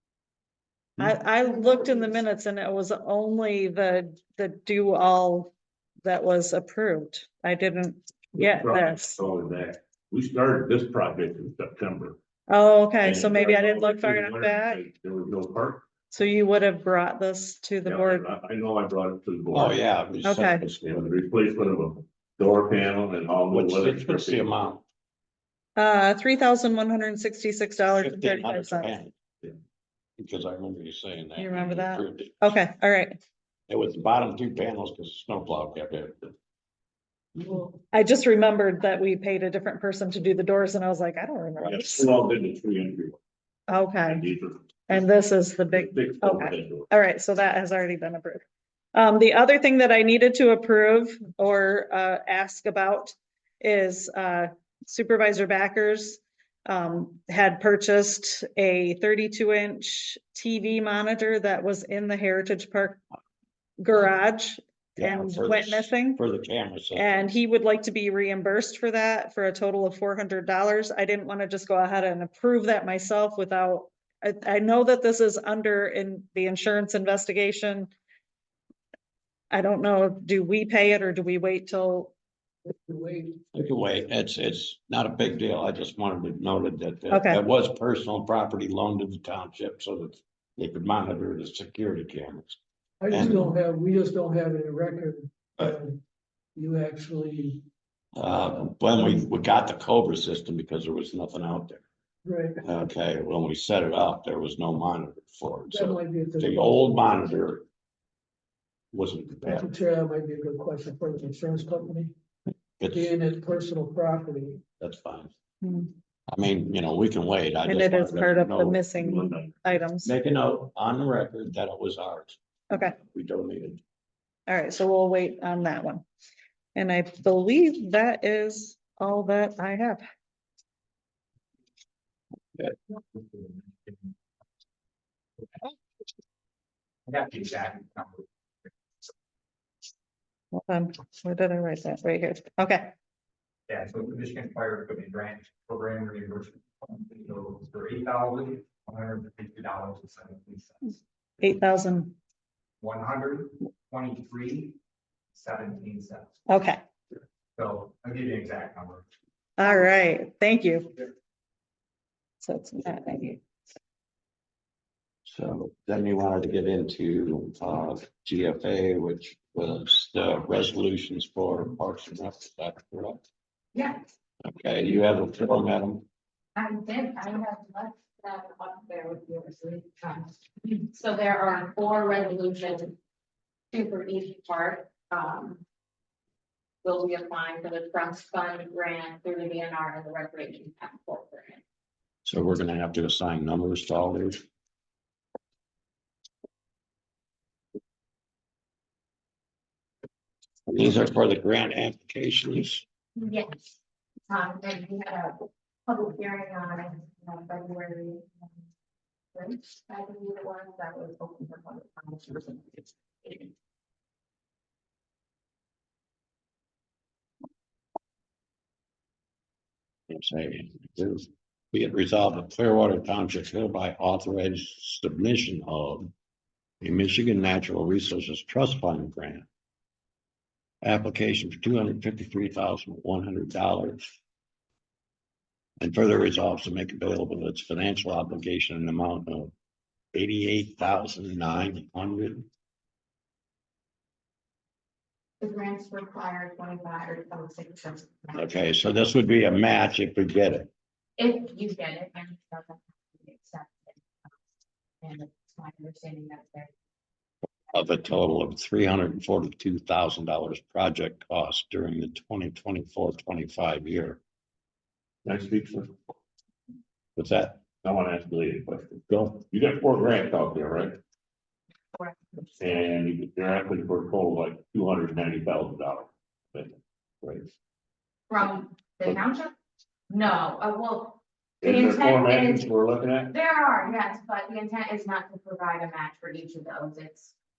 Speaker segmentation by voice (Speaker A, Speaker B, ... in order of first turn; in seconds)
Speaker A: 1.0-5.5, 6.0-9.2, 12.5-14.9, 16.1-18.3, 20.2-20.6, 25.8-29.0, 31.4-33.2, 37.9-42.1, 43.7-44.3, 44.9-63.0, 63.8-66.2, 66.9-77.9, 79.5-82.1, 87.1-87.4, 115.6-115.9, 117.6-120.1, 122.7-123.0, 124.5-126.0, 126.7-130.0, 140.5-142.9, 151.4-152.2, 156.5-156.8, 159.6-161.0, 162.4-163.4
Speaker B: 1.4-2.2, 173.7-174.1, 176.5-182.9, 183.7-185.6, 186.8-191.6, 203.2-203.8, 204.3-208.7, 209.3-213.5, 245.4-248.6, 251.2-254.3, 255.0-256.7, 271.9-272.8, 278.3-279.5, 280.1-282.7, 283.3-287.3
Speaker C: 8.3-12.2, 13.0-15.9, 17.8-19.8, 20.7-24.5, 41.6-43.2, 44.0-45.1, 45.6-46.9, 118.9-119.6, 265.2-265.9, 267.8-271.0, 272.6-277.5, 281.6-283.3
Speaker D: 19.5-21.2, 23.5-24.8, 27.9-29.1, 30.2-32.5, 33.7-36.4, 65.0-67.2, 83.5-93.5, 98.2-101.8, 102.6-107.6, 108.9-109.7, 112.8-113.1, 114.8-115.3, 116.3-118.8, 120.0-123.8, 165.3-173.2, 174.4-176.0, 192.2-194.4, 200.7-202.8, 220.1-226.1, 226.8-229.5, 230.8-234.1, 235.8-239.5, 240.1-242.4, 248.3-250.7, 257.7-264.2, 267.1-267.6
Speaker E: 82.7-83.4, 93.0-96.0, 96.5-97.6, 102.2-102.6, 105.7-107.1, 109.5-112.1, 112.9-114.6
Speaker F: 133.0-134.1, 137.1-138.3, 143.7-150.9, 152.8-154.8, 155.3-156.3, 157.6-159.1